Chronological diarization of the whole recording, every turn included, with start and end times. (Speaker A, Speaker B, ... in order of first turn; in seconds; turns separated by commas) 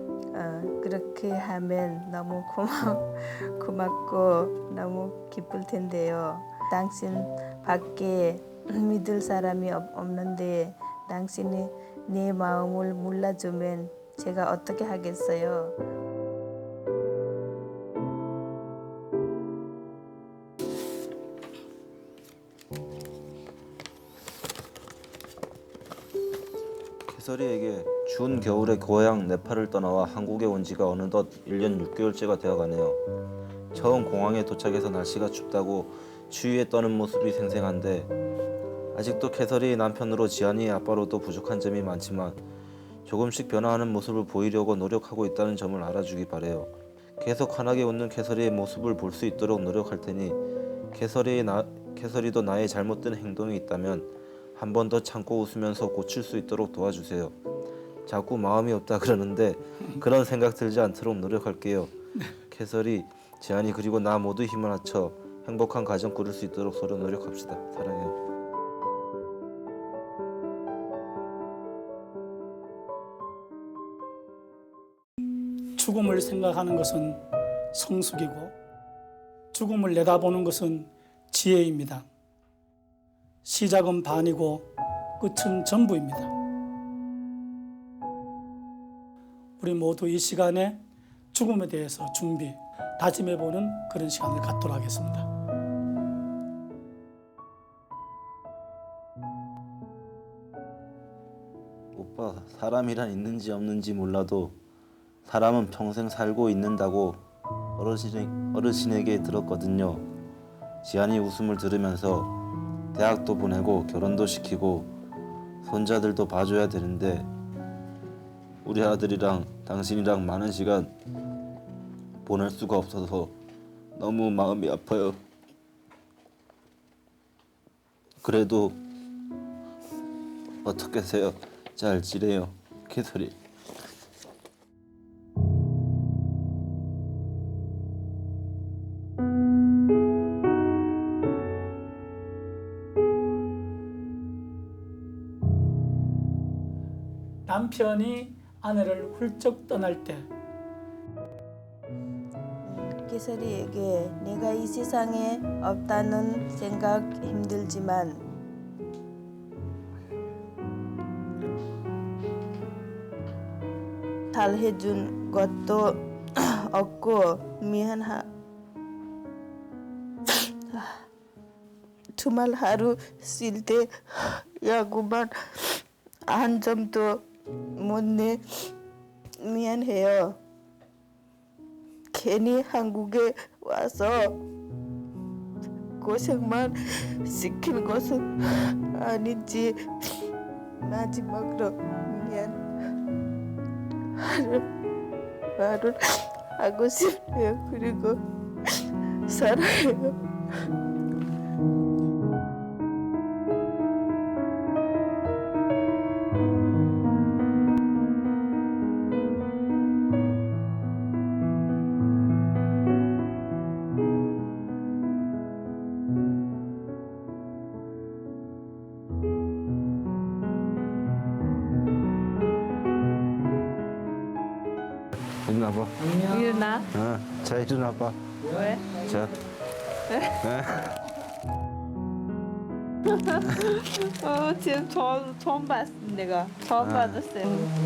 Speaker A: 0.3-15.7, Speaker B: 27.1-33.0, Speaker B: 33.7-38.1, Speaker B: 38.9-42.4, Speaker B: 43.1-50.4, Speaker B: 50.9-57.4, Speaker B: 58.1-61.9, Speaker B: 62.5-68.2, Speaker C: 75.8-78.5, Speaker C: 79.5-82.1, Speaker C: 83.5-84.7, Speaker C: 85.2-86.3, Speaker C: 89.6-95.3, Speaker B: 101.9-104.6, Speaker B: 105.3-107.2, Speaker B: 107.8-110.0, Speaker B: 110.8-112.3, Speaker B: 112.9-114.9, Speaker B: 115.6-117.3, Speaker B: 118.6-120.9, Speaker B: 122.2-123.3, Speaker B: 124.0-125.2, Speaker B: 128.2-128.8, Speaker B: 130.6-133.4, Speaker C: 147.5-150.3, Speaker A: 152.6-158.2, Speaker A: 164.3-165.9, Speaker A: 166.7-168.3, Speaker A: 170.7-171.0, Speaker A: 172.2-175.3, Speaker A: 176.3-177.1, Speaker A: 177.8-178.4, Speaker A: 179.4-180.4, Speaker A: 182.1-184.3, Speaker A: 186.0-186.7, Speaker A: 187.3-188.3, Speaker A: 189.0-189.7, Speaker A: 190.8-192.6, Speaker A: 194.2-194.6, Speaker A: 195.6-198.2, Speaker A: 199.3-200.2, Speaker B: 225.5-226.2, Speaker A: 226.3-226.9, Speaker B: 226.9-228.2, Speaker A: 228.5-229.0, Speaker B: 229.0-229.4, Speaker B: 230.4-231.0, Speaker A: 233.2-237.7, Speaker B: 236.8-237.2